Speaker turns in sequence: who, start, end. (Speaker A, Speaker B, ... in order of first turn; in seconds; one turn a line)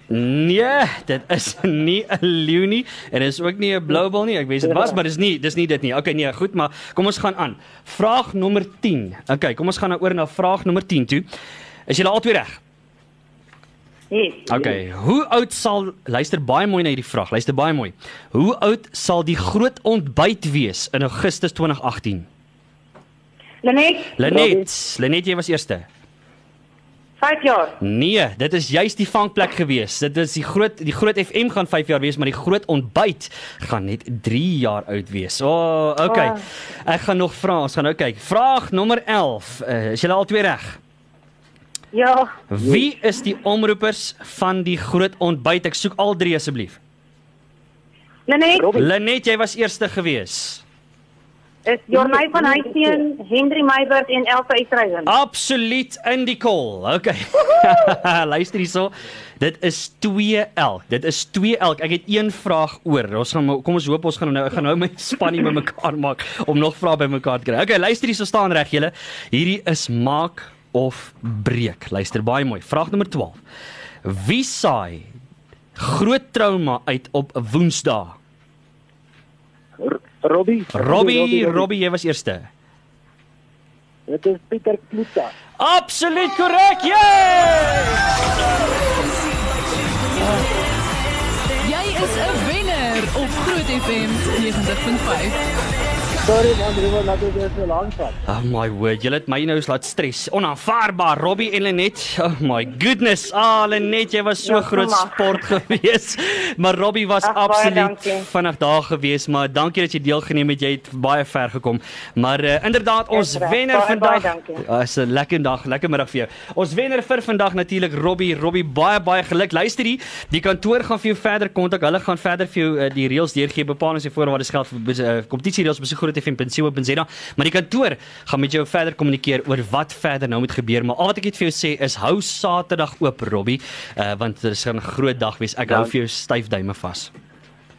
Speaker A: 0.1-11.2
Speaker B: 4.6-5.0
Speaker A: 11.9-12.6
Speaker C: 14.1-14.7
Speaker A: 14.5-22.3
Speaker C: 23.6-24.2
Speaker A: 24.2-25.9
Speaker B: 24.2-24.7
Speaker C: 27.2-27.8
Speaker A: 27.8-40.8
Speaker C: 36.0-36.4
Speaker C: 41.9-42.3
Speaker A: 42.5-46.8
Speaker B: 42.6-42.9
Speaker C: 48.3-48.8
Speaker B: 48.5-48.9
Speaker A: 48.8-50.6
Speaker C: 51.6-55.1
Speaker B: 51.9-53.0
Speaker A: 55.0-73.4
Speaker A: 74.0-75.1
Speaker A: 75.8-78.2
Speaker B: 79.8-81.7
Speaker A: 80.7-82.5
Speaker B: 84.1-85.3
Speaker A: 85.6-88.1
Speaker D: 91.6-95.4
Speaker B: 96.2-98.2
Speaker A: 98.3-137.1
Speaker C: 104.4-105.4
Speaker C: 107.2-108.3
Speaker C: 113.1-114.6
Speaker B: 135.7-135.9